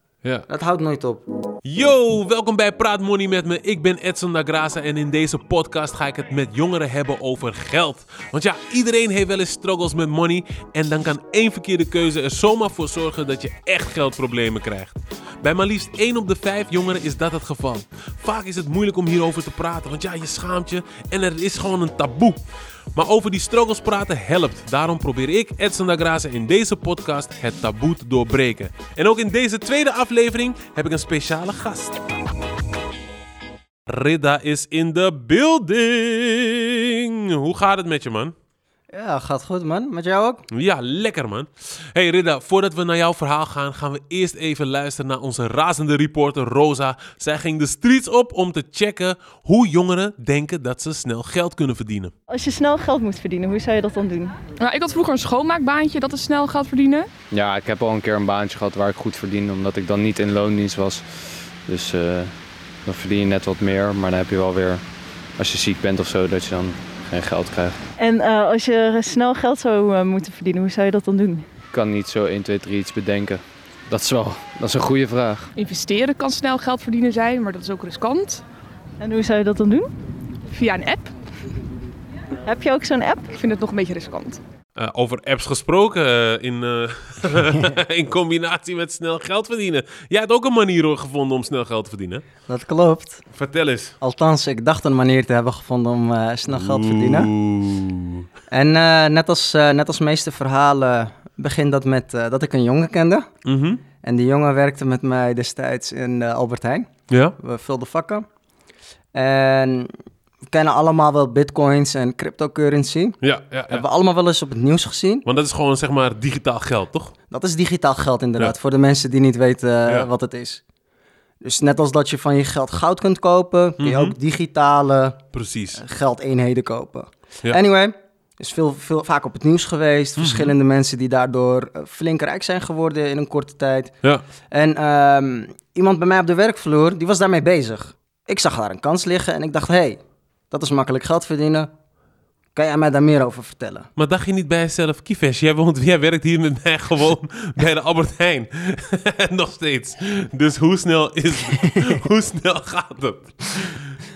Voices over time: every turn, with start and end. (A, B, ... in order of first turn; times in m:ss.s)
0:00.5-0:01.2 A
0:01.6-0:22.4 B
0:23.0-0:32.0 B
0:33.9-0:38.3 B
0:38.9-0:40.4 A
0:40.5-0:52.1 B
0:52.3-0:54.4 C
0:54.6-0:57.1 D
0:57.3-1:04.8 E
1:05.4-1:07.8 E
1:08.0-1:11.5 C
1:11.7-1:15.5 E
1:15.5-1:18.4 D
1:19.0-1:19.9 C
1:20.5-1:21.1 D
1:22.4-1:23.3 C
1:23.3-1:24.4 D
1:24.8-1:32.2 B
1:32.5-1:33.2 A
1:33.3-1:33.9 B
1:34.0-1:37.3 A
1:36.5-1:38.2 B
1:38.5-1:43.2 A
1:43.4-1:43.8 B
1:44.0-1:48.2 A
1:47.1-1:47.4 B
1:49.1-1:49.9 A
1:50.5-1:53.2 A
1:53.2-1:53.8 B
1:53.7-1:55.2 A
1:55.2-1:57.1 B
1:57.3-2:00.6 A
2:01.4-2:05.2 A
2:03.8-2:04.2 B
2:05.3-2:05.8 B
2:05.8-2:13.9 A
2:10.2-2:10.5 B
2:14.5-2:21.7 A
2:22.5-2:23.9 A
2:24.0-2:34.0 B